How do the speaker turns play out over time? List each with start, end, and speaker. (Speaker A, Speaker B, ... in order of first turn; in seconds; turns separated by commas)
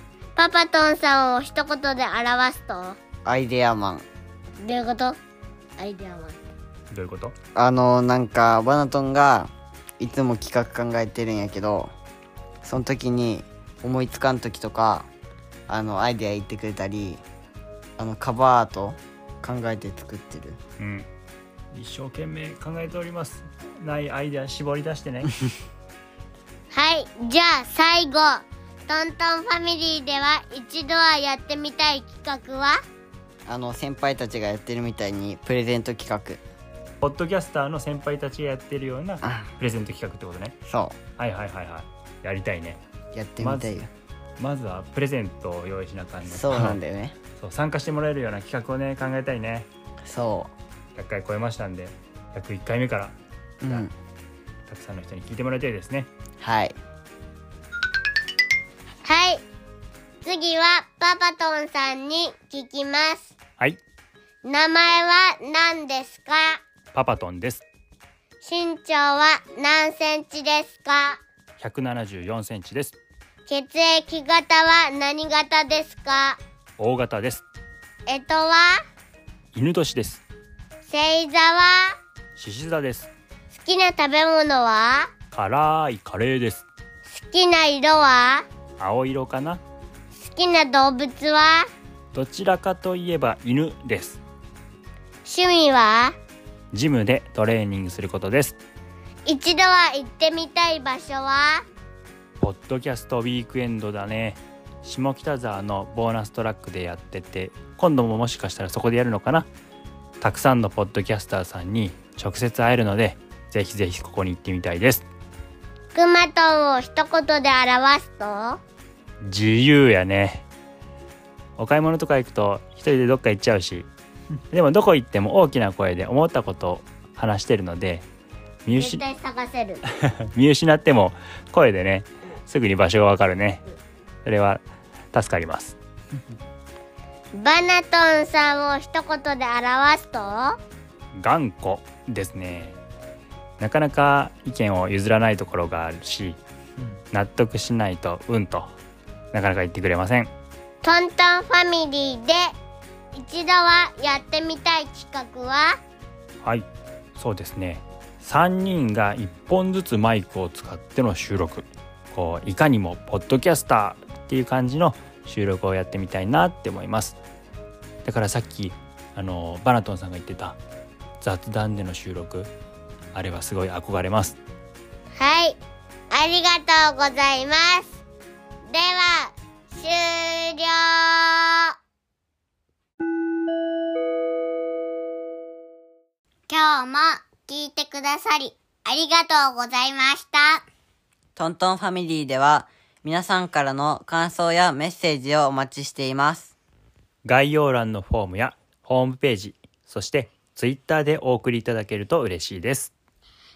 Speaker A: 0.4-3.0, Speaker B: 3.2-4.0, Speaker A: 4.6-5.2, Speaker A: 5.8-6.4, Speaker C: 6.9-7.3, Speaker B: 7.5-11.9, Speaker B: 12.6-15.1, Speaker B: 15.7-17.2, Speaker B: 18.0-20.6, Speaker C: 20.8-21.1, Speaker C: 21.7-25.4, Speaker A: 26.7-32.8, Speaker B: 33.5-36.4, Speaker C: 37.0-40.6, Speaker B: 39.2-39.5, Speaker B: 40.7-41.0, Speaker C: 41.2-42.8, Speaker B: 43.1-43.9, Speaker C: 43.4-43.8, Speaker C: 44.4-46.8, Speaker B: 46.3-47.2, Speaker C: 47.4-49.7, Speaker B: 50.0-50.5, Speaker C: 51.0-53.9, Speaker B: 53.6-53.9, Speaker C: 54.7-56.1, Speaker B: 56.4-56.8, Speaker A: 59.0-59.4, Speaker A: 60.2-63.3, Speaker A: 64.4-66.6, Speaker C: 66.9-67.7, Speaker A: 68.4-71.2, Speaker C: 71.6-73.0, Speaker A: 73.5-76.4, Speaker C: 76.8-77.5, Speaker A: 78.1-78.8, Speaker C: 79.5-80.2, Speaker A: 80.8-82.0, Speaker C: 82.4-83.1, Speaker A: 83.5-85.1, Speaker C: 85.3-86.7, Speaker A: 87.0-88.5, Speaker C: 88.8-89.6, Speaker A: 90.1-91.7, Speaker C: 92.1-94.2, Speaker A: 95.2-96.2, Speaker C: 96.7-98.6, Speaker A: 99.3-101.6, Speaker C: 102.4-109.5, Speaker C: 110.2-115.0, Speaker A: 115.9-118.6, Speaker C: 119.2-120.5, Speaker C: 121.6-123.9, Speaker C: 124.5-128.1, Speaker C: 128.7-129.0, Speaker A: 128.7-129.8, Speaker C: 130.1-133.6, Speaker C: 134.2-134.6, Speaker C: 135.1-135.8, Speaker A: 137.3-140.6, Speaker C: 141.1-142.8, Speaker C: 143.6-146.4, Speaker C: 147.1-148.7, Speaker C: 149.3-150.3, Speaker A: 150.8-152.5, Speaker A: 153.1-155.8, Speaker C: 156.4-167.2, Speaker C: 168.0-170.6, Speaker C: 171.2-172.5, Speaker C: 173.1-174.4, Speaker A: 175.2-175.6, Speaker A: 176.1-178.0, Speaker A: 178.7-181.7, Speaker A: 186.5-190.7, Speaker B: 191.4-196.5, Speaker C: 197.2-202.9